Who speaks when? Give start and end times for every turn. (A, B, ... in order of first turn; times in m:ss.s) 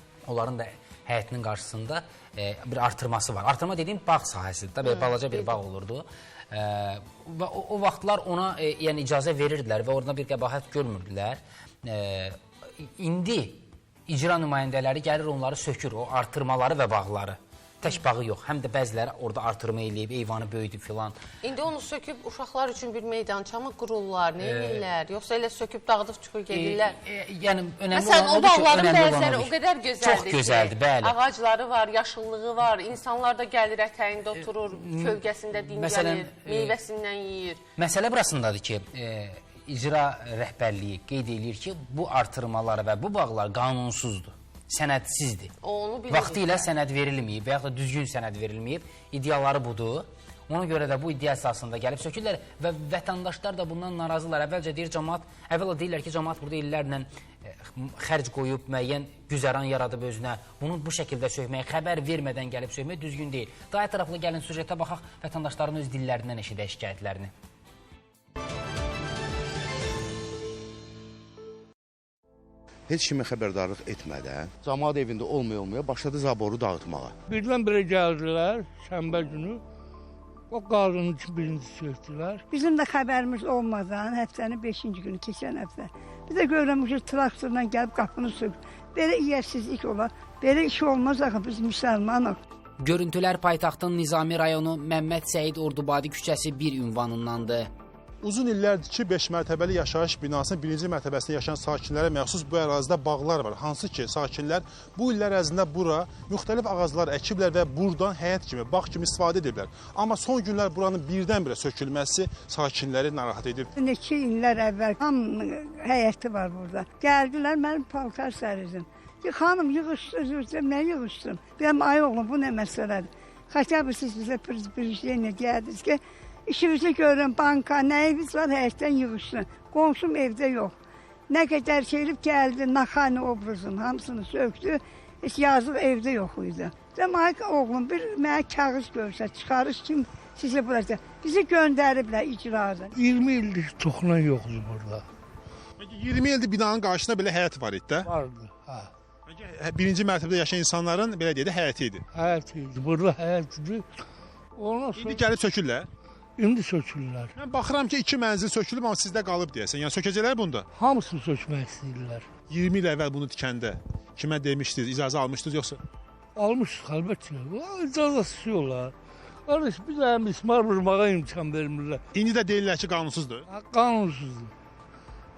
0:00.2-0:21.2 A
0:04.8-0:05.6 B
0:21.4-0:27.0 B
0:24.4-0:24.8 A
0:26.5-0:31.1 A
0:27.9-0:37.6 B
0:34.7-0:36.7 A
0:37.8-0:45.5 A
0:45.6-0:46.7 B
0:46.1-1:07.3 A
1:12.9-1:17.1 C
1:17.3-1:19.6 D
1:20.5-1:22.4 D
1:22.5-1:32.4 E
1:32.8-1:37.7 A
1:38.2-1:53.7 F
1:53.8-2:10.7 E
2:11.3-2:22.9 E
2:22.9-2:25.0 D
2:25.8-2:28.1 F
2:28.0-2:28.9 D
2:29.3-2:32.0 F
2:32.1-2:33.8 D
2:34.6-2:35.2 D
2:34.9-2:35.9 F
2:36.4-2:37.3 D
2:37.3-2:40.6 F
2:40.8-2:42.3 D
2:42.5-2:45.8 F
2:46.4-2:48.9 D
2:49.4-2:52.0 D
2:52.1-2:53.4 F
2:53.5-2:54.5 D